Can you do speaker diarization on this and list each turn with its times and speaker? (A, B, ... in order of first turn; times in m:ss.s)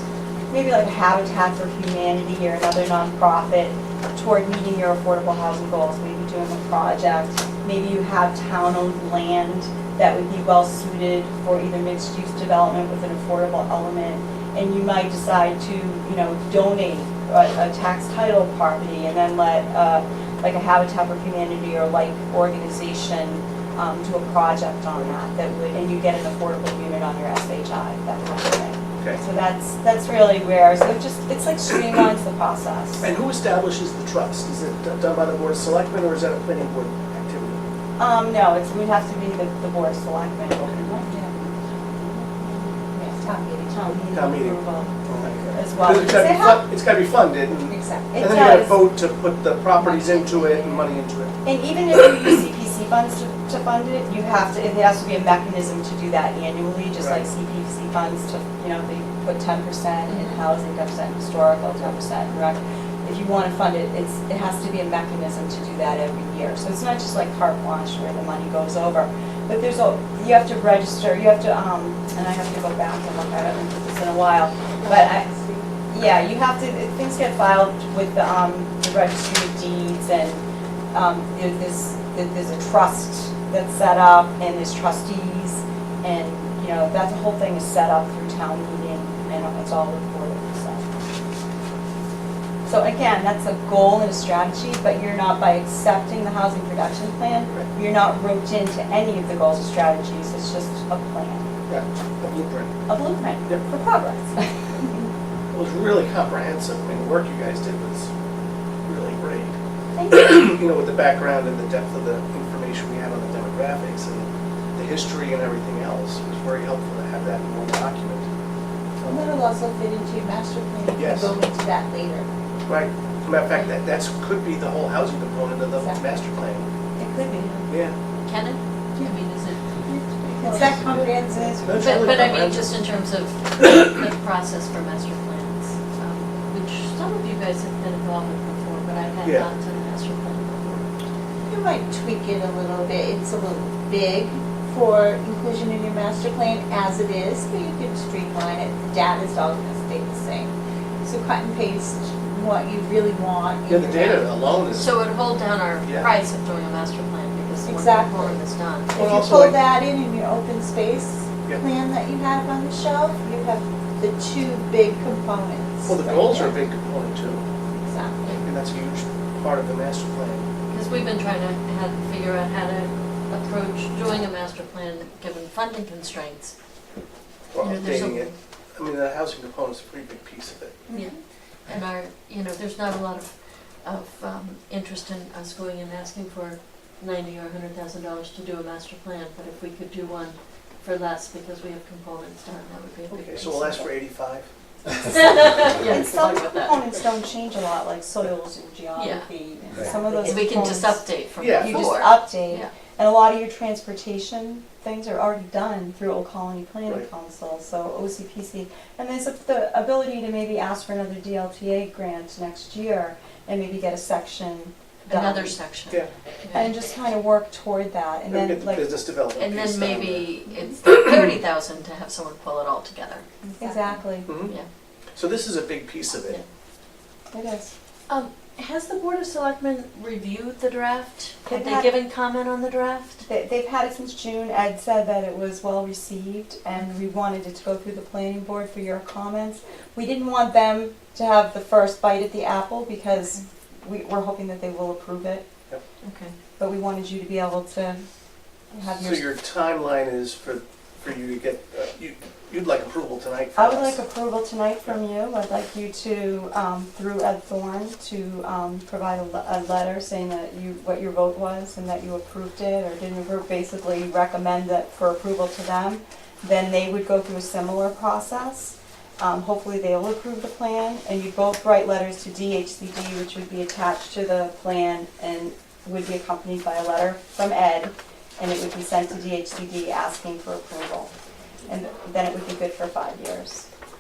0:00.5-0:33.1 A
0:33.0-0:37.6 B
0:38.0-0:42.8 A
0:40.6-0:40.9 B
0:41.1-0:41.6 C
0:42.9-0:44.1 C
0:43.7-0:46.6 A
0:44.1-0:51.4 B
0:47.7-0:48.1 C
0:48.1-0:48.9 A
0:49.8-0:50.8 A
0:51.4-1:15.3 A
0:57.0-0:57.2 B
1:00.1-1:00.4 D
1:14.8-1:15.7 C
1:15.9-1:30.9 A
1:32.6-1:41.5 A
1:41.7-1:42.7 B
1:42.9-1:45.0 A
1:45.5-1:48.1 B
1:48.9-1:49.6 B
1:50.0-1:50.4 A
1:50.1-1:58.3 B
1:59.0-1:59.4 B
1:59.0-2:02.3 C
2:01.0-2:01.4 B
2:02.7-2:06.7 B
2:07.0-2:07.6 A
2:07.7-2:08.0 B
2:08.2-2:09.6 D
2:09.9-2:12.0 C
2:10.4-2:10.7 A
2:11.6-2:12.8 B
2:11.7-2:20.9 D
2:19.2-2:19.5 B
2:21.5-2:34.5 C
2:33.7-2:35.0 B
2:34.7-2:38.9 D
2:37.6-2:38.4 C
2:38.9-2:46.6 C
2:39.0-2:39.6 B
2:45.9-2:47.4 B
2:47.7-2:48.4 C
2:48.4-2:50.4 B
2:50.7-2:56.5 D
2:57.5-3:00.8 B
2:57.6-2:58.3 D
3:00.9-3:13.9 D
3:13.1-3:14.5 B
3:14.9-3:16.9 D
3:15.8-3:35.6 A
3:19.0-3:19.3 D
3:19.8-3:20.4 C
3:20.1-3:22.7 D
3:21.4-3:22.0 B
3:35.1-3:36.7 D
3:36.5-3:38.9 A
3:38.3-3:40.3 B
3:39.4-3:43.3 D
3:43.6-3:44.3 A
3:43.6-3:43.9 C
3:44.3-3:44.5 B
3:45.2-3:46.4 B
3:47.3-3:47.7 A
3:48.1-3:53.2 D
3:51.5-3:51.9 A
3:53.3-4:05.4 A
4:06.0-4:06.3 D
4:06.6-4:08.0 A
4:08.7-4:09.3 A
4:09.0-4:14.0 B
4:13.6-4:41.1 A
4:41.7-4:43.7 A